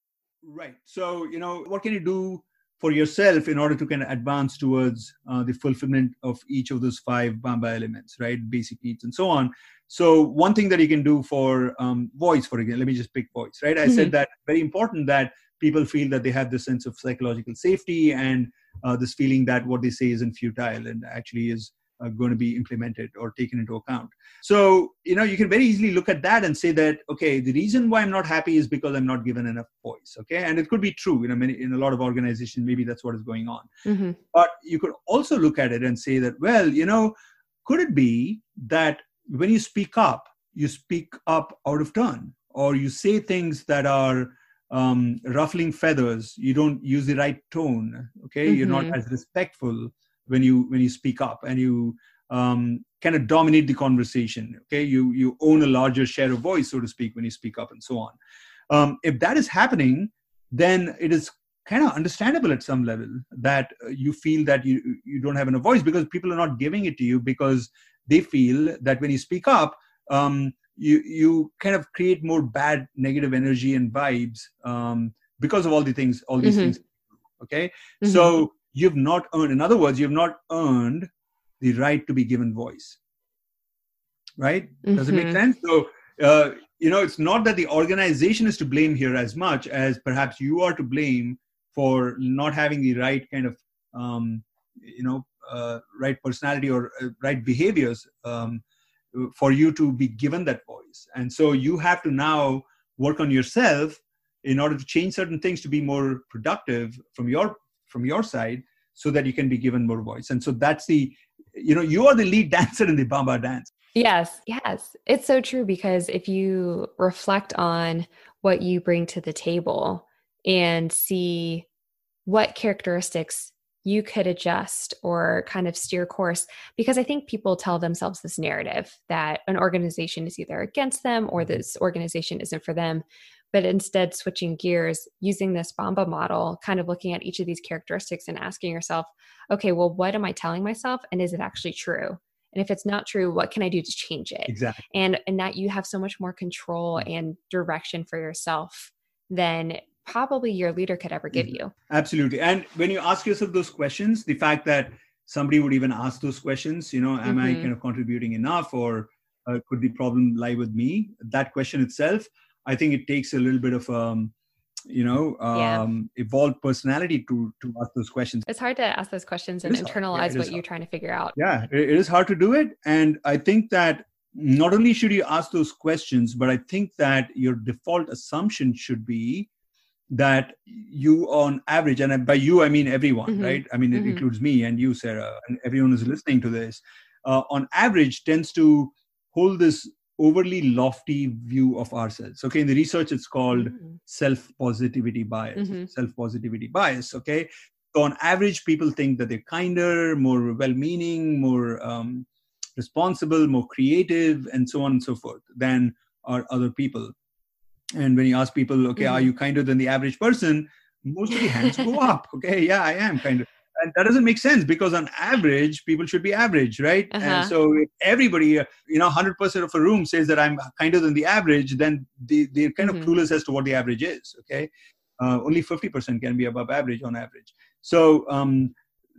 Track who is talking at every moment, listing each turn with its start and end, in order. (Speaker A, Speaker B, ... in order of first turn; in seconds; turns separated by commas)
Speaker A: 0.4-33.7, Speaker B: 13.8-14.1, Speaker B: 33.8-34.2, Speaker A: 34.3-58.1, Speaker B: 48.5-49.0, Speaker A: 58.7-76.8, Speaker B: 76.4-76.8, Speaker A: 77.4-81.1, Speaker B: 78.0-78.4, Speaker A: 81.6-83.0, Speaker A: 84.4-98.6, Speaker B: 84.8-85.4, Speaker A: 99.1-113.7, Speaker B: 113.9-121.7, Speaker B: 122.2-151.7, Speaker A: 144.5-144.8, Speaker A: 151.3-164.3, Speaker B: 157.2-157.7, Speaker A: 164.9-168.4, Speaker B: 165.5-165.8, Speaker B: 168.5-171.3, Speaker A: 169.6-170.6, Speaker A: 171.3-179.5, Speaker A: 180.1-207.1, Speaker B: 183.3-184.2, Speaker B: 193.5-193.9, Speaker B: 195.6-195.9, Speaker A: 207.9-228.7, Speaker B: 209.0-209.3, Speaker B: 217.1-217.5, Speaker B: 222.8-223.1